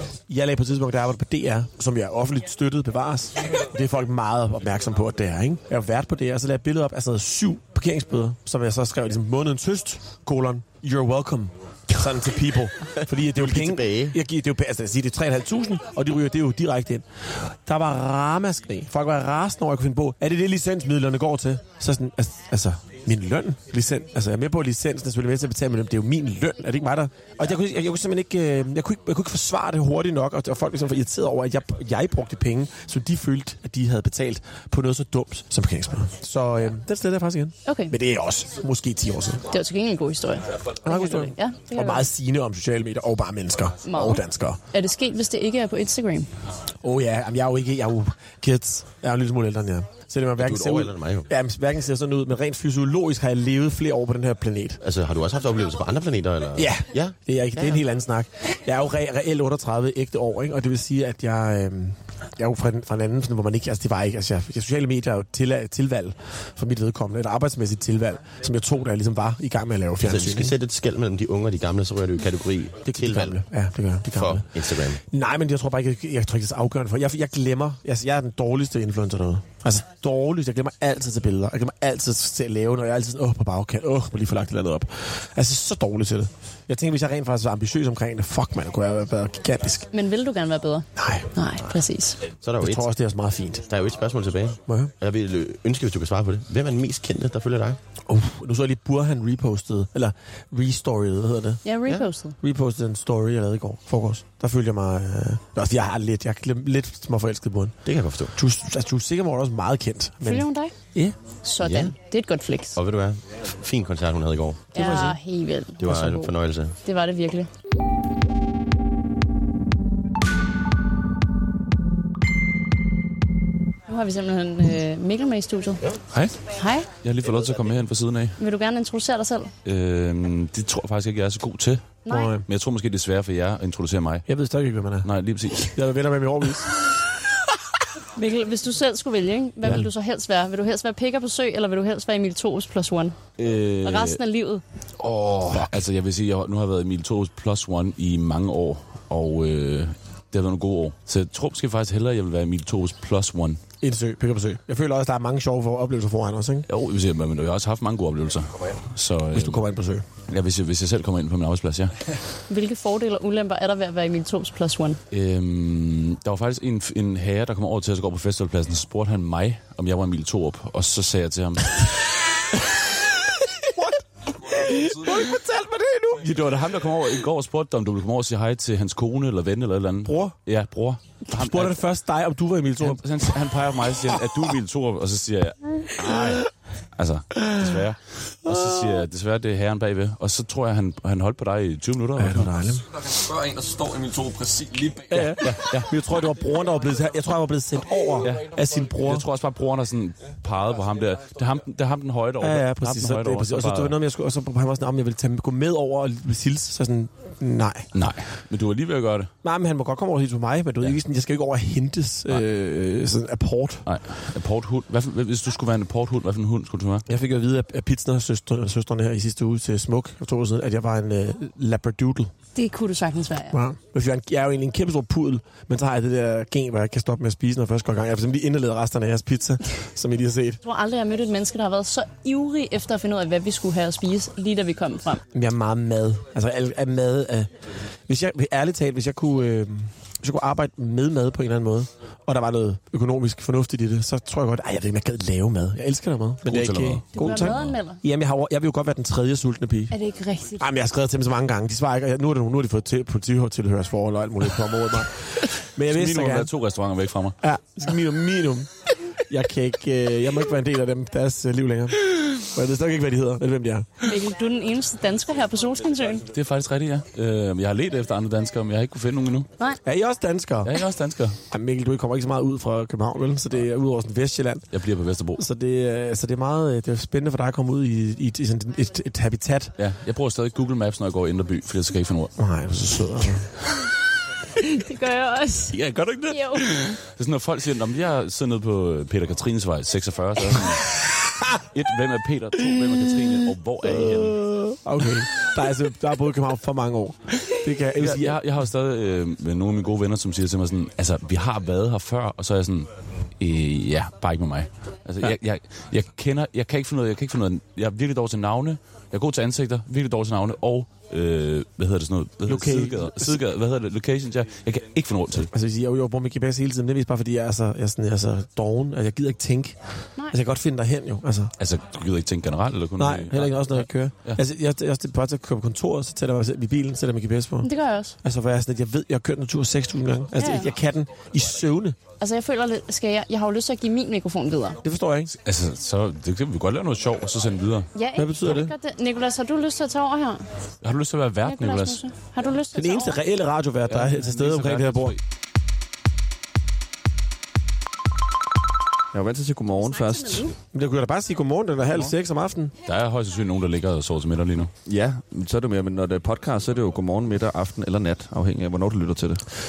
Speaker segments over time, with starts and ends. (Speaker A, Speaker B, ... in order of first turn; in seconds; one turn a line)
Speaker A: 0.3-39.4
Speaker B: 13.2-14.2
Speaker C: 37.6-37.9
Speaker C: 39.5-42.0
Speaker A: 40.8-44.6
Speaker C: 43.8-46.3
Speaker A: 46.8-54.8
Speaker B: 50.4-51.3
Speaker B: 54.8-57.8
Speaker A: 56.5-70.5
Speaker B: 70.0-73.4
Speaker A: 72.9-74.5
Speaker B: 74.1-75.0
Speaker A: 75.0-89.9
Speaker C: 89.9-92.2
Speaker A: 91.0-91.2
Speaker B: 92.4-92.9
Speaker A: 92.6-93.7
Speaker B: 93.7-97.8
Speaker A: 94.7-94.9
Speaker A: 98.1-101.6
Speaker C: 101.6-102.4
Speaker A: 102.4-111.2
Speaker B: 107.8-108.3
Speaker C: 110.2-110.7
Speaker C: 111.4-112.8
Speaker B: 111.6-111.9
Speaker B: 112.8-114.7
Speaker C: 114.7-117.5
Speaker A: 114.7-115.2
Speaker B: 115.8-116.7
Speaker C: 123.9-125.9
Speaker D: 126.1-126.4
Speaker C: 126.5-126.9
Speaker D: 127.0-128.4
Speaker C: 128.4-129.5
Speaker D: 129.6-134.2
Speaker C: 132.1-132.3
Speaker A: 132.1-132.4
Speaker A: 134.3-135.1
Speaker D: 135.0-135.7
Speaker A: 135.6-136.8
Speaker C: 138.1-143.2
Speaker D: 143.4-144.2
Speaker C: 143.8-144.6
Speaker A: 145.0-145.7
Speaker D: 145.1-153.6
Speaker A: 153.8-156.7
Speaker D: 156.7-159.6
Speaker A: 159.3-160.1
Speaker D: 160.3-161.9
Speaker C: 162.5-165.0
Speaker D: 165.1-171.9
Speaker A: 173.2-176.3
Speaker D: 176.2-181.8
Speaker A: 180.0-180.3
Speaker A: 181.3-183.4
Speaker D: 182.8-192.5
Speaker A: 186.0-186.4
Speaker A: 187.4-187.7
Speaker A: 188.5-189.0
Speaker A: 192.2-192.8
Speaker E: 192.9-195.5
Speaker A: 195.1-199.3
Speaker D: 195.4-195.9
Speaker D: 198.2-203.9
Speaker A: 202.4-207.9
Speaker D: 207.9-209.3
Speaker A: 209.4-213.8
Speaker D: 213.8-217.0
Speaker A: 217.1-222.3
Speaker C: 222.5-223.6
Speaker A: 223.5-230.6
Speaker C: 230.6-235.2
Speaker A: 235.3-237.5
Speaker A: 238.1-249.9
Speaker D: 246.4-247.7
Speaker C: 247.1-248.0
Speaker C: 249.9-250.7
Speaker A: 250.6-256.5
Speaker D: 255.9-257.4
Speaker A: 257.4-258.7
Speaker A: 259.3-264.0
Speaker C: 264.0-266.3
Speaker D: 266.3-269.5
Speaker A: 269.8-270.7
Speaker D: 270.6-271.4
Speaker A: 271.5-274.7
Speaker D: 274.7-275.4
Speaker A: 275.4-279.7
Speaker D: 279.8-282.3
Speaker A: 282.4-283.5
Speaker C: 284.6-286.8
Speaker D: 285.7-290.9
Speaker D: 291.7-294.4
Speaker A: 293.8-298.4
Speaker D: 297.9-302.9
Speaker D: 303.4-315.5
Speaker A: 312.4-313.4
Speaker A: 315.5-319.8
Speaker A: 320.3-321.5
Speaker D: 321.6-324.4
Speaker A: 323.0-327.7
Speaker C: 327.6-328.2
Speaker A: 328.2-332.0
Speaker C: 330.4-330.7
Speaker C: 332.2-334.8
Speaker A: 334.8-335.3
Speaker D: 335.4-337.9
Speaker C: 337.9-340.4
Speaker A: 338.2-338.7
Speaker D: 340.8-342.0
Speaker C: 341.4-343.2
Speaker A: 342.7-345.1
Speaker D: 343.9-345.2
Speaker E: 349.1-350.5
Speaker C: 349.9-350.5
Speaker A: 350.7-352.7
Speaker D: 352.9-354.7
Speaker E: 354.8-359.4